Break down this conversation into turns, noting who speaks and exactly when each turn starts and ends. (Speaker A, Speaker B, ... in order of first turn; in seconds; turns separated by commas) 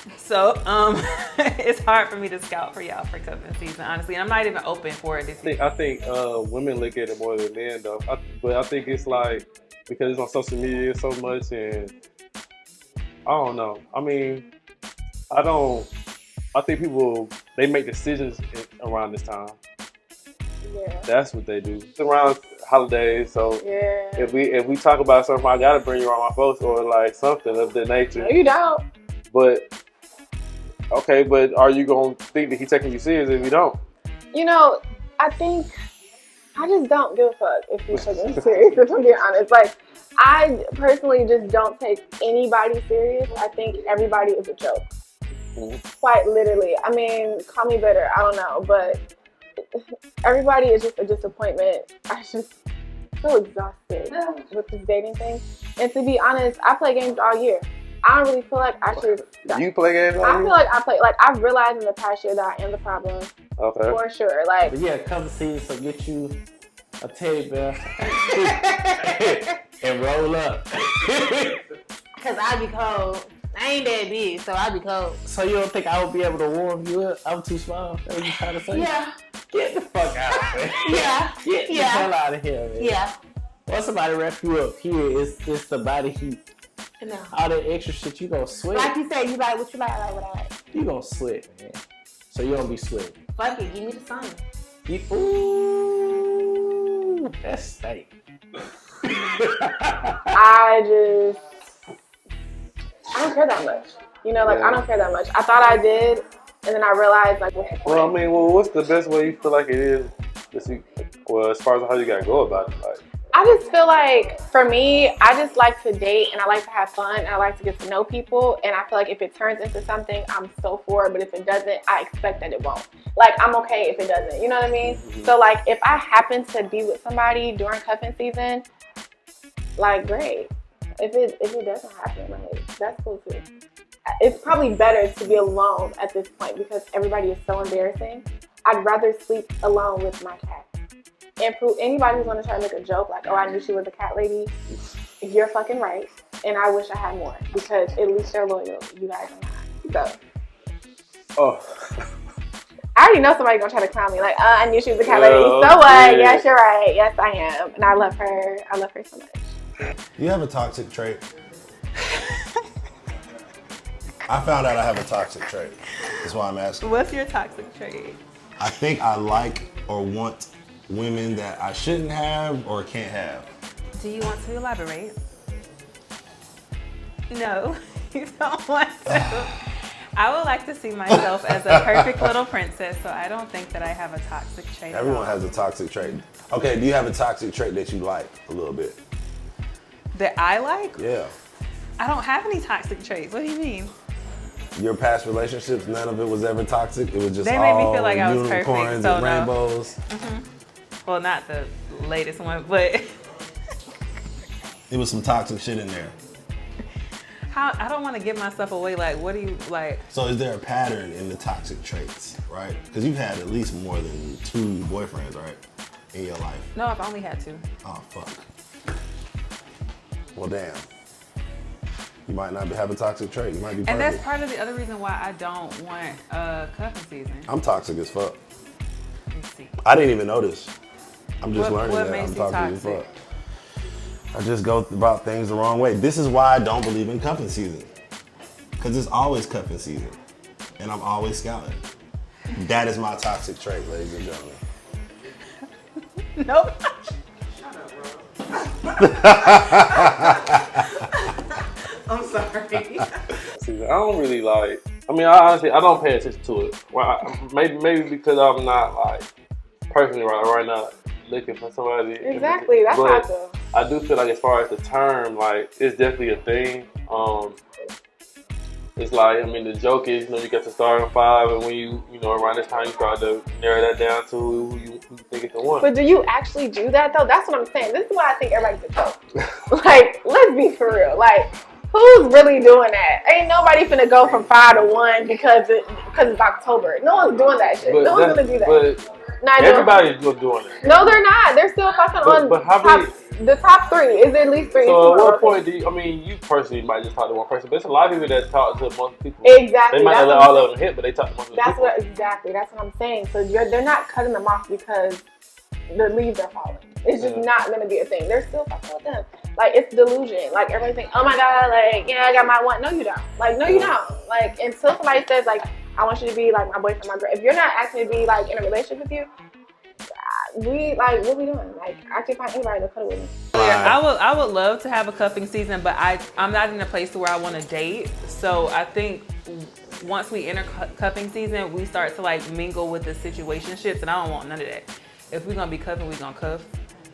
Speaker A: 0.2-5.6, Speaker B: 5.4-11.9, Speaker B: 13.2-14.4, Speaker B: 15.3-15.9, Speaker B: 16.5-19.6, Speaker C: 20.6-21.1, Speaker B: 21.1-23.6, Speaker C: 23.6-24.3, Speaker B: 24.1-28.3, Speaker C: 28.1-28.8, Speaker B: 29.3-29.7, Speaker B: 30.9-33.8, Speaker C: 34.3-35.7, Speaker C: 36.5-44.9, Speaker C: 46.0-49.0, Speaker C: 50.2-52.5, Speaker C: 53.2-59.6, Speaker B: 59.0-60.6, Speaker C: 60.2-63.3, Speaker B: 63.6-64.0, Speaker C: 63.9-64.7, Speaker D: 64.6-66.4, Speaker D: 67.0-71.6, Speaker E: 68.0-69.5, Speaker E: 72.2-75.2, Speaker D: 75.2-78.9, Speaker E: 78.2-79.1, Speaker D: 79.5-83.0, Speaker E: 80.3-82.1, Speaker E: 82.8-83.1, Speaker D: 83.7-86.4, Speaker E: 87.0-87.3, Speaker D: 87.3-88.9, Speaker E: 88.7-90.6, Speaker D: 90.7-91.8, Speaker D: 92.3-93.2, Speaker E: 93.3-94.4, Speaker D: 94.9-96.7, Speaker D: 97.4-98.1, Speaker C: 100.3-101.4, Speaker C: 103.1-108.1, Speaker B: 104.4-104.8, Speaker B: 107.8-113.0, Speaker C: 113.3-128.6, Speaker B: 124.9-125.3, Speaker C: 129.8-133.4, Speaker C: 134.1-140.7, Speaker C: 141.4-144.5, Speaker C: 145.2-150.1, Speaker B: 151.4-151.8, Speaker C: 152.9-159.5, Speaker B: 155.1-156.4, Speaker F: 160.2-161.2, Speaker F: 164.3-166.9, Speaker A: 166.8-168.2, Speaker F: 168.6-173.5, Speaker A: 174.0-175.2, Speaker A: 177.3-179.6, Speaker A: 180.2-185.5, Speaker F: 181.1-182.3, Speaker F: 184.9-189.0, Speaker A: 190.1-191.0, Speaker F: 190.9-191.3, Speaker A: 192.0-193.9, Speaker F: 194.8-199.9, Speaker A: 197.4-199.5, Speaker A: 200.1-200.4, Speaker A: 201.1-203.0, Speaker F: 204.9-206.1, Speaker A: 207.5-210.0, Speaker F: 210.1-215.6, Speaker F: 216.1-216.7, Speaker A: 216.7-217.6, Speaker F: 217.8-218.5, Speaker F: 220.3-220.8, Speaker F: 222.3-224.2, Speaker A: 223.8-227.5, Speaker F: 227.5-228.4, Speaker A: 229.3-229.8, Speaker F: 229.8-230.7, Speaker F: 231.4-233.1, Speaker A: 231.5-233.1, Speaker F: 234.3-237.9, Speaker F: 238.8-240.2, Speaker F: 240.8-241.8, Speaker F: 242.5-244.6, Speaker A: 246.4-246.7, Speaker F: 249.0-250.8, Speaker B: 253.6-259.3, Speaker B: 259.9-267.6, Speaker C: 262.2-263.5, Speaker B: 269.0-275.9, Speaker C: 275.8-279.2, Speaker C: 279.7-290.0, Speaker B: 287.8-289.0, Speaker B: 289.6-291.2, Speaker C: 290.8-295.6, Speaker B: 292.2-293.1, Speaker B: 294.8-301.9, Speaker C: 299.4-300.7, Speaker C: 301.5-305.2, Speaker C: 305.9-319.3, Speaker B: 307.2-307.4, Speaker B: 313.6-314.0, Speaker C: 320.6-323.4, Speaker F: 323.5-324.0, Speaker A: 323.5-336.7